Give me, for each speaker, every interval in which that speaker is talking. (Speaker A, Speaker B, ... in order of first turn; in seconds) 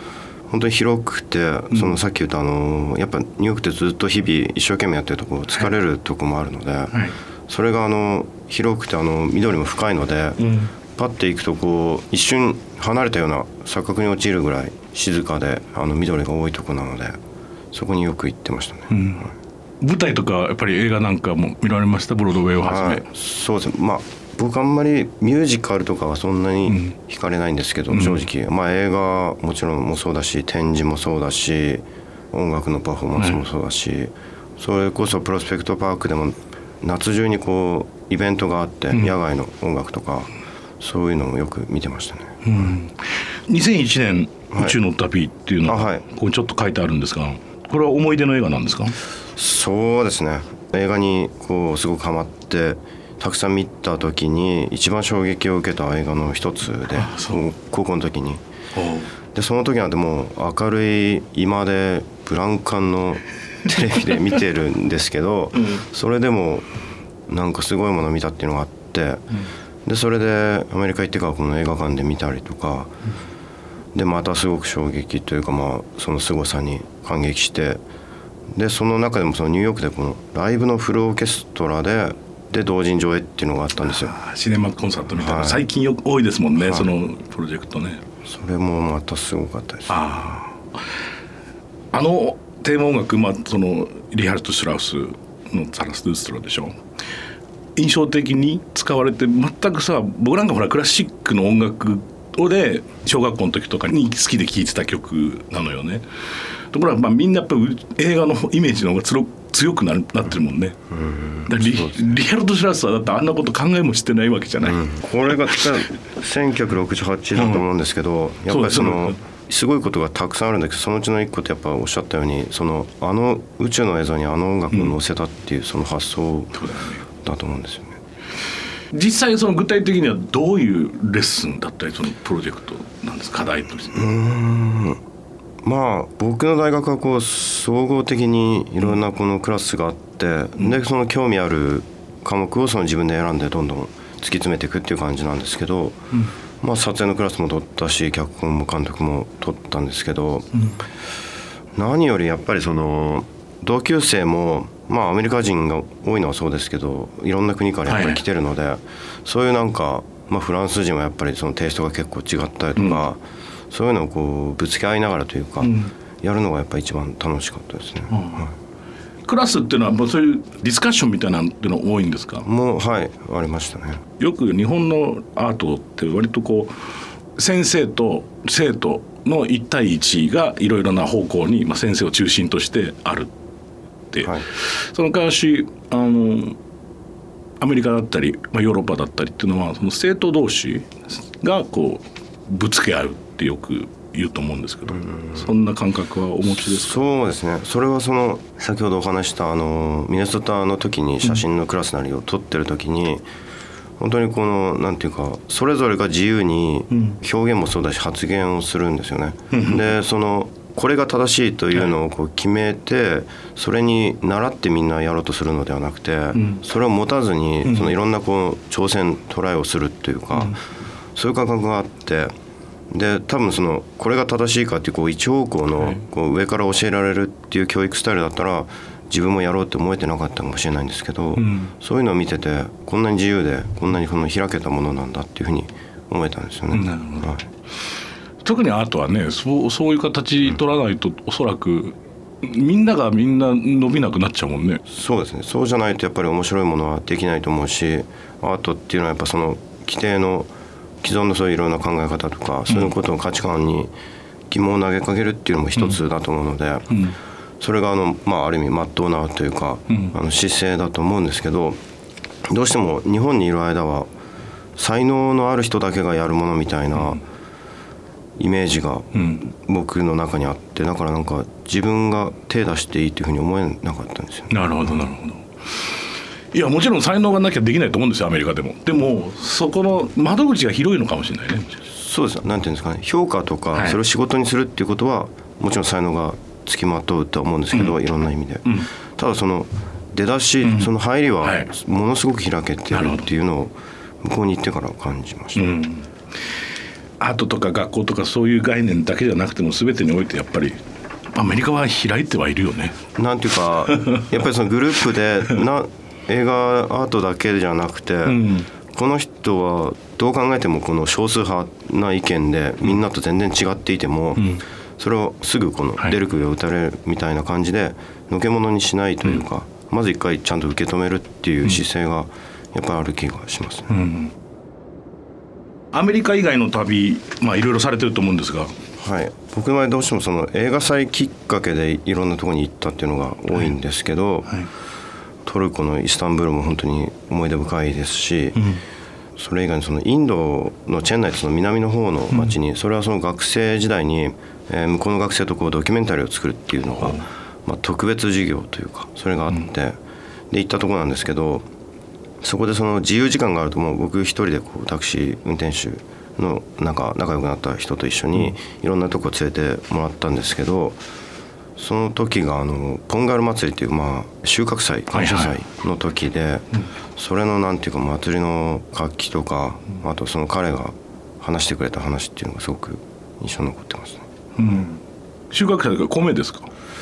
Speaker A: 0.5-10.4, 10.9-17.2, 17.7-19.3, 22.6-40.3, 40.8-42.4, 45.6-46.0, 49.4-58.4, 59.3-66.7, 67.3-69.2, 69.8-72.9, 73.9-77.8, 78.5-84.1, 85.1-85.7, 86.6-86.9, 88.2-90.0, 110.9-112.0, 114.6-126.6, 127.2-128.0, 133.9-135.0, 135.6-146.0, 146.6-150.5, 151.7-168.5, 172.4-174.0, 194.9-195.5, 196.6-203.2, 204.0-220.5, 221.2-222.3, 222.9-237.4, 244.9-250.5, 251.0-253.9, 254.5-257.0, 257.6-261.8, 262.4-264.1, 264.8-267.2, 268.4-274.5, 281.9-295.7, 303.1-323.9, 329.0-334.5, 335.4-338.6, 339.4-350.0, 350.5-351.7, 352.4-361.0, 361.8-374.2
Speaker B: 10.4-10.7, 18.9-19.3, 19.8-23.0, 26.7-26.9, 27.9-28.2, 42.4-49.0, 56.9-57.4, 58.7-59.1, 65.6-65.8, 83.8-88.0, 89.9-90.6, 91.9-96.8, 97.8-106.0, 106.7-110.8, 111.5-114.8, 117.3-117.6, 118.5-119.2, 126.5-127.0, 128.9-134.1, 157.9-158.2, 162.8-163.0, 165.6-165.9, 168.1-168.5, 169.2-172.4, 174.2-176.7, 177.4-183.3, 184.1-186.6, 187.6-197.0, 206.9-207.2, 209.5-209.9, 216.3-216.6, 217.6-217.9, 231.3-231.7, 236.7-237.3, 238.4-244.8, 252.7-252.9, 256.9-257.2, 259.9-260.1, 269.1-269.4, 274.5-275.9, 276.5-281.8, 283.7-284.0, 287.7-288.0, 290.6-290.9, 291.4-291.7, 292.9-293.2, 295.6-296.1, 297.2-300.8, 301.3-303.0, 303.9-304.3, 308.2-308.7, 314.4-314.6, 323.9-324.3, 325.9-328.7, 338.6-338.8, 346.9-347.2, 365.1-365.6, 374.6-375.0, 375.5-376.7